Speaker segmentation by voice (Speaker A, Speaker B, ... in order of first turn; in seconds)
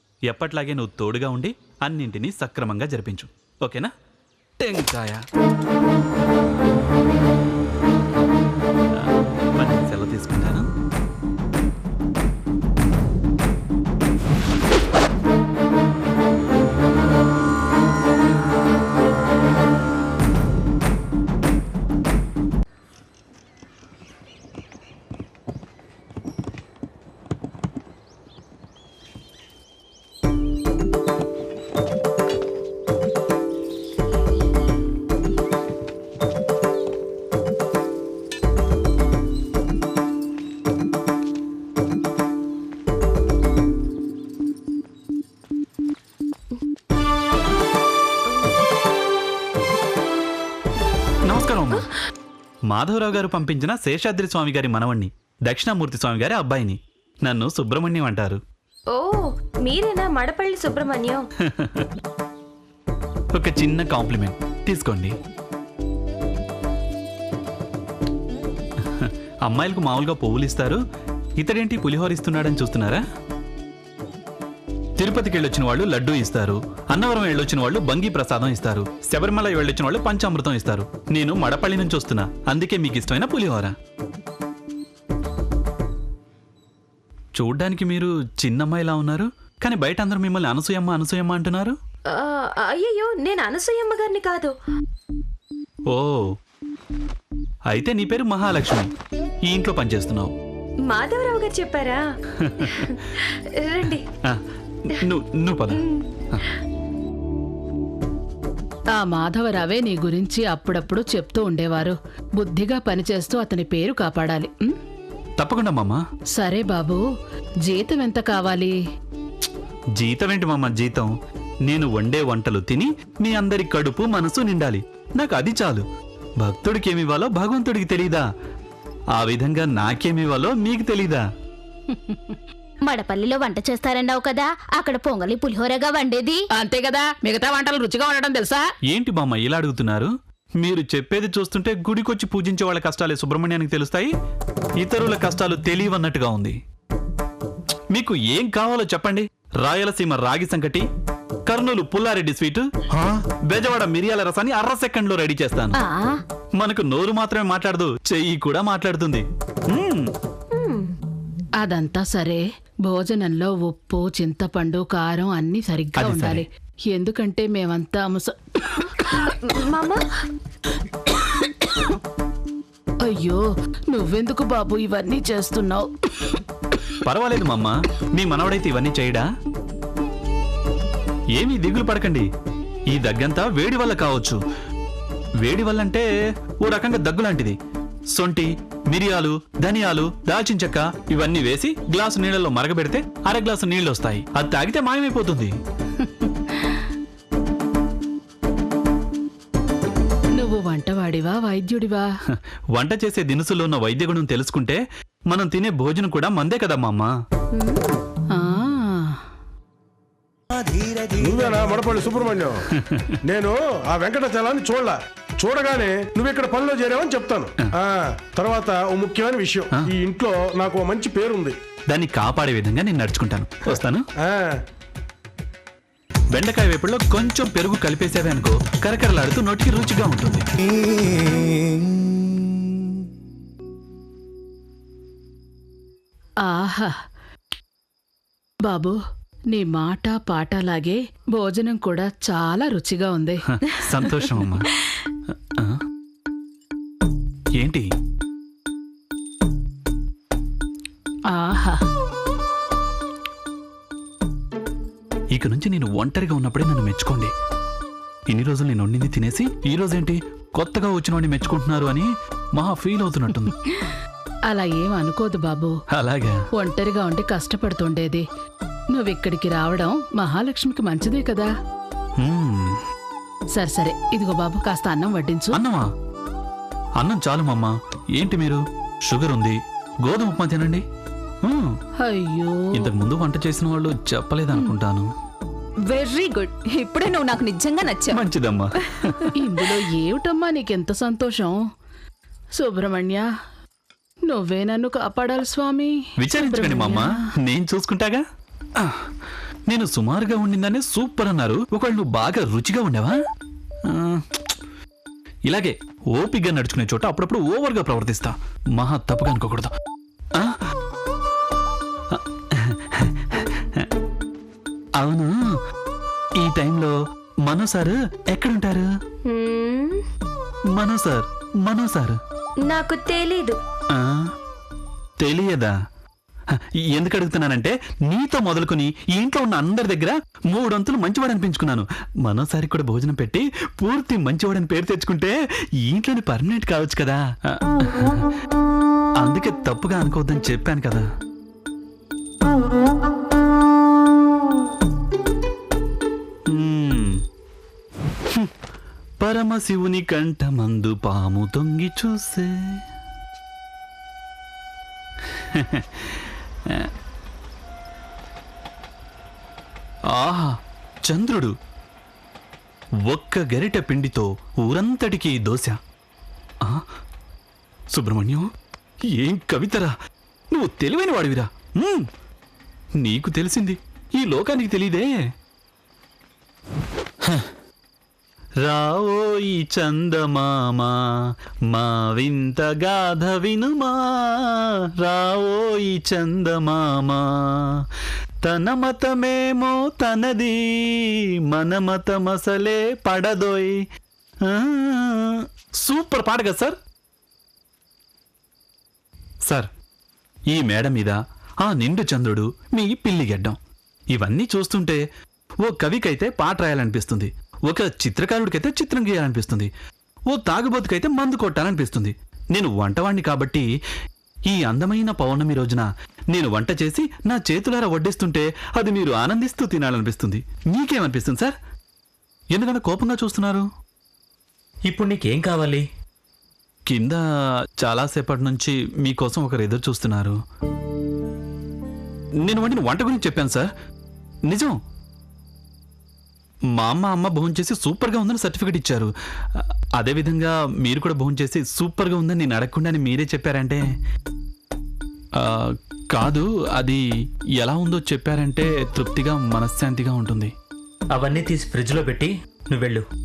Speaker A: 0.3-3.9, 4.6-5.2, 8.9-10.7, 51.2-51.9, 52.7-58.4, 61.4-61.9, 63.3-65.1, 68.8-70.8, 71.4-73.0, 75.0-83.7, 87.3-91.8, 95.9-96.3, 97.7-98.9, 99.5-100.3, 102.4-102.9, 104.3-106.4, 115.4-116.0, 120.0-121.1, 121.6-125.8, 126.4-128.2, 129.1-131.2, 138.9-144.1, 144.8-146.6, 147.9-150.8, 151.5-155.8, 156.6-160.1, 165.9-166.4, 177.0-179.3, 181.3-182.3, 182.9-184.4, 185.4-186.1, 186.6-187.6, 188.1-195.5, 202.7-207.1, 212.7-213.1, 221.9-224.0, 226.3-230.4, 243.6-244.7, 247.6-247.9, 255.3-257.3, 258.3-263.5, 265.9-266.4, 272.2-272.8, 275.5-275.9, 277.0-280.8, 281.4-281.8, 282.7-285.1, 288.1-289.3, 296.2-298.2, 298.8-299.1, 299.7-303.2, 303.9-304.5, 305.5-309.7, 312.1-313.9, 315.0-315.3, 316.4-318.9, 320.7-322.2, 323.9-324.3, 325.2-325.7, 326.5-338.3, 339.2-341.0, 346.5-347.2, 349.2-352.8, 355.2-356.9, 360.1-361.5, 363.1-365.8, 367.9-368.5, 369.1-369.9, 370.5-372.1, 373.0-375.1, 378.6-387.9, 388.4-393.8, 394.4-396.8, 400.5-403.6, 404.1-405.0, 405.6-409.7, 410.3-413.7, 414.5-421.5, 422.5-423.7, 426.9-427.2, 427.8-430.4, 432.4-433.7, 434.5-434.8, 436.7-443.8, 445.4-447.0, 447.6-450.5
Speaker B: 48.3-48.5, 58.9-61.2, 92.1-94.5, 100.9-102.0, 102.6-104.0, 105.8-106.5, 155.8-156.1, 160.5-160.9, 169.2-170.0, 319.3-320.0, 322.7-323.6
Speaker C: 108.9-114.7, 116.3-117.0, 117.7-118.7, 136.6-138.6, 161.6-169.2, 171.1-171.9, 173.0-176.4, 196.0-196.8, 200.4-202.1, 208.3-209.2, 236.4-236.9, 238.6-239.0, 239.5-243.4, 251.3-251.8, 264.5-265.7, 266.6-268.2, 268.9-271.5, 273.5-275.6, 282.0-282.9, 289.4-291.6, 292.6-293.3, 294.3-297.1
Speaker D: 132.9-136.4
Speaker E: 211.2-212.6, 213.3-221.5, 224.2-224.6
Speaker F: 285.9-288.2
Speaker G: 424.9-425.8, 451.1-453.0